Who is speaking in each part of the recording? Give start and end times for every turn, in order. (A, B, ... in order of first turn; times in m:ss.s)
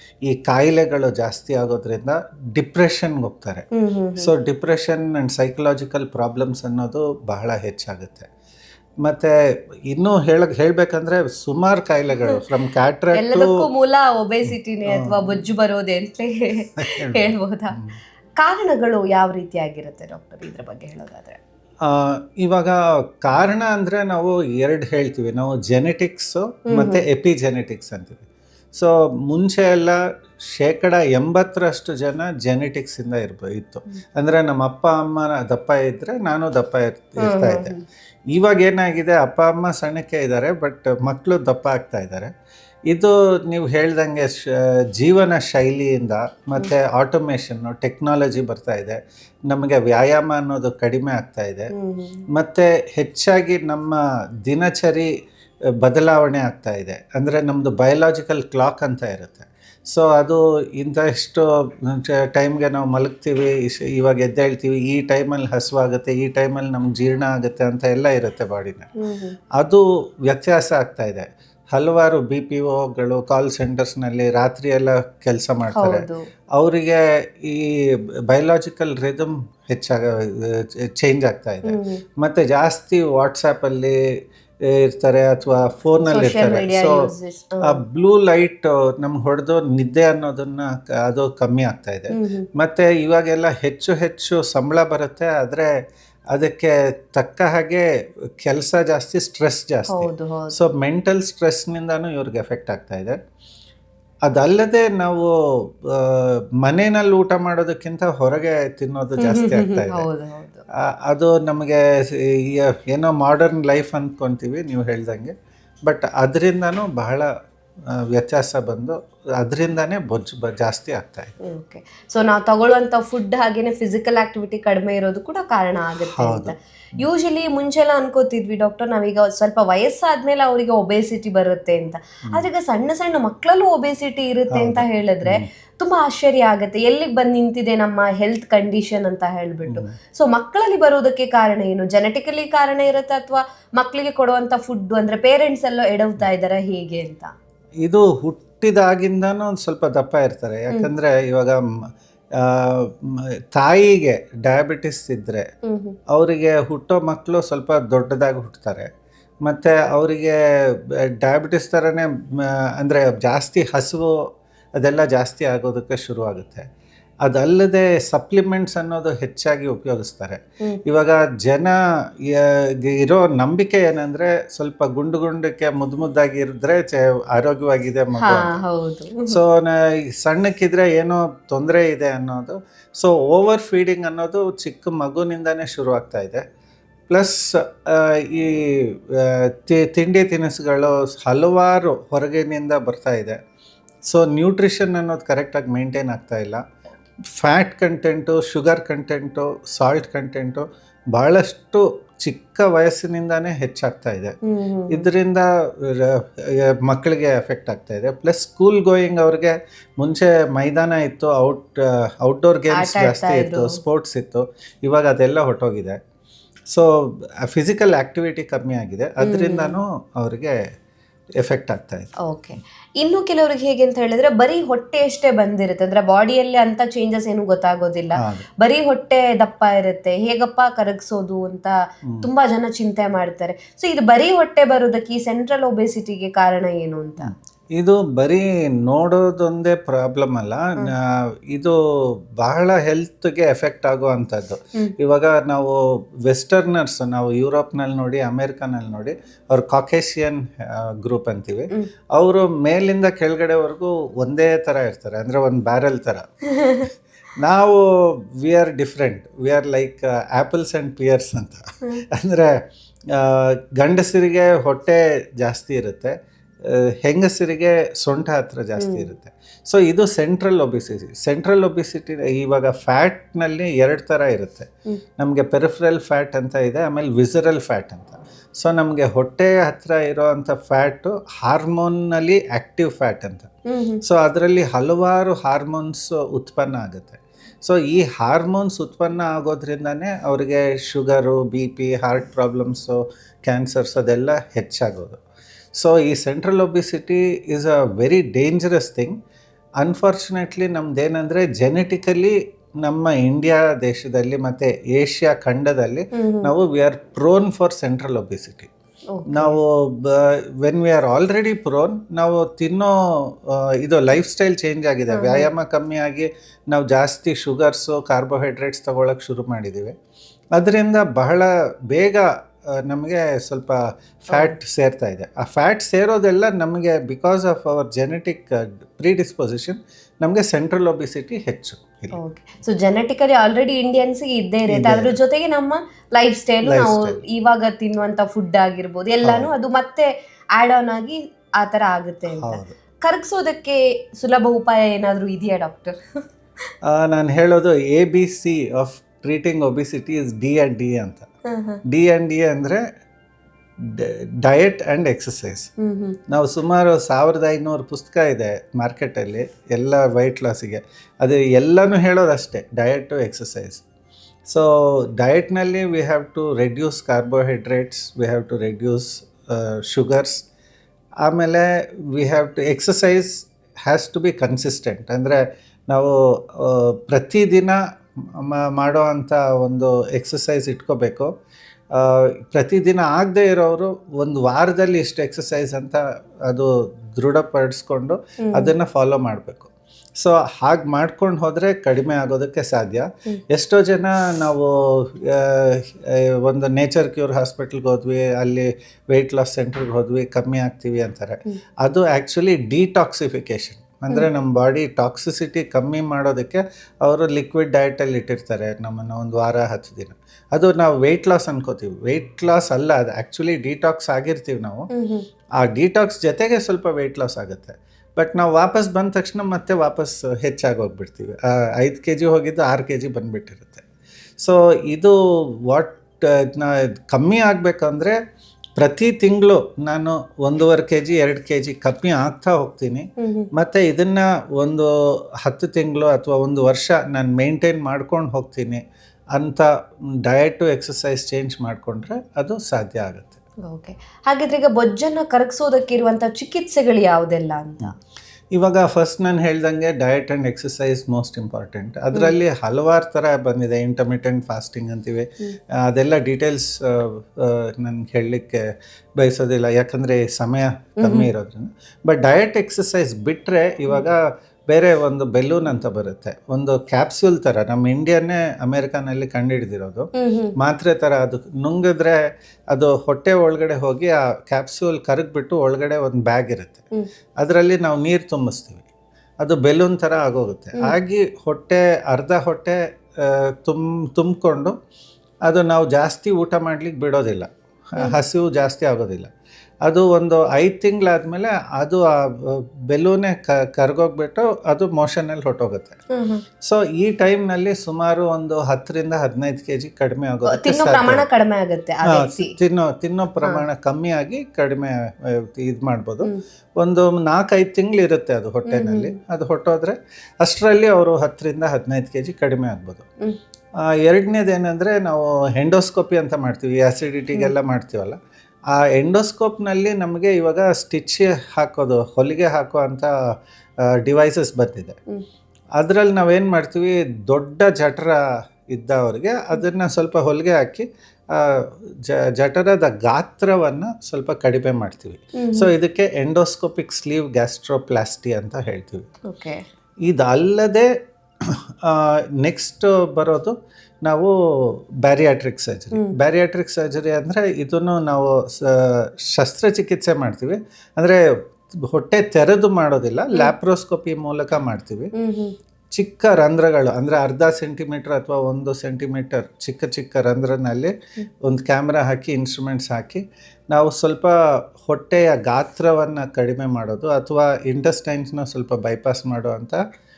0:00.2-0:03.6 A
0:03.7-0:04.3 B
0:04.2-0:08.3 A
0:09.0-0:13.6 A
0:13.1-0:17.7 B
0:14.9-0:15.4 A
0:16.8-0:18.0 A
0:18.4-0:21.4 B
0:21.8-0:28.2 A
0:26.7-0:27.0 B
0:28.7-0:37.7 A
0:37.2-0:37.8 B
0:38.3-0:42.3 A
0:42.9-0:51.7 A
0:51.7-0:52.3 B
0:52.3-0:55.1 A
0:55.8-1:08.9 A
1:09.0-1:09.3 B
1:09.6-1:24.0 A
1:15.7-1:16.3 B
1:21.6-1:22.0 B
1:24.6-1:27.1 A
1:26.1-1:27.8 B
1:27.6-1:35.7 A
1:32.1-1:32.4 B
1:36.3-1:37.9 A
1:38.4-1:43.2 A
1:39.9-1:40.6 B
1:44.3-1:50.0 A
1:49.2-1:50.6 B
1:50.8-1:55.3 A
1:55.8-1:57.3 A
1:57.9-2:01.3 A
2:01.4-2:27.3 B
2:06.0-2:06.5 A
2:14.5-2:15.5 A
2:19.7-2:19.9 A
2:27.8-2:31.6 A
2:32.4-2:35.5 A
2:35.6-2:36.0 B
2:36.1-2:38.9 A
2:39.4-2:44.1 A
2:44.8-2:46.7 A
2:47.2-2:58.5 A
2:58.2-2:59.4 B
2:59.3-3:06.4 A
3:07.1-3:13.4 A
3:14.1-3:16.6 A
3:17.3-3:24.4 A
3:24.4-3:25.1 B
3:24.9-3:36.0 A
3:32.7-3:33.8 B
3:36.7-3:40.6 A
3:39.2-3:39.7 B
3:41.4-3:42.1 A
3:42.2-3:57.3 B
3:48.2-3:48.4 A
3:57.2-4:01.8 A
4:02.4-4:22.6 A
4:16.6-4:16.8 B
4:23.1-4:43.5 A
4:28.8-4:29.1 B
4:43.7-4:44.0 B
4:44.0-4:55.2 A
4:55.7-4:59.1 A
4:59.8-5:08.7 A
5:06.1-5:06.5 B
5:09.1-5:09.6 B
5:09.3-5:20.0 A
5:15.1-5:15.5 B
5:20.6-5:32.2 A
5:32.1-5:46.2 B
5:34.7-5:35.2 A
5:36.6-5:37.2 A
5:39.2-5:39.5 A
5:42.3-5:42.8 A
5:46.8-5:51.3 A
5:51.5-5:51.8 B
5:51.9-5:52.8 A
5:53.8-5:55.7 A
5:55.8-5:56.2 B
5:56.3-6:03.8 A
6:04.4-6:10.4 A
6:11.2-6:17.8 A
6:18.4-6:21.3 A
6:21.9-6:54.9 A
6:28.4-6:28.7 B
6:54.9-6:55.2 B
6:55.6-7:03.8 A
7:04.4-7:08.2 A
7:08.8-7:14.9 A
7:13.2-7:13.5 B
7:15.4-7:18.8 A
7:19.4-7:19.7 A
7:20.2-7:23.4 A
7:23.6-7:28.0 B
7:28.5-7:38.6 A
7:39.2-7:52.2 A
7:41.0-7:41.3 B
7:50.2-7:50.5 B
7:52.7-7:56.8 A
7:57.4-7:58.8 A
7:59.4-8:04.8 A
8:05.5-8:09.3 A
8:09.8-8:16.0 A
8:16.1-8:16.4 B
8:16.6-8:21.2 A
8:20.4-8:22.5 B
8:22.1-8:33.1 A
8:28.7-8:29.1 B
8:33.8-8:38.2 A
8:38.7-8:43.1 A
8:43.8-8:45.0 A
8:45.8-8:48.2 A
8:48.7-8:59.1 A
8:55.4-8:55.7 B
8:59.2-8:59.6 B
9:00.0-9:00.9 A
9:01.4-9:11.2 A
9:11.8-9:15.1 A
9:15.1-9:15.5 B
9:15.9-9:29.8 A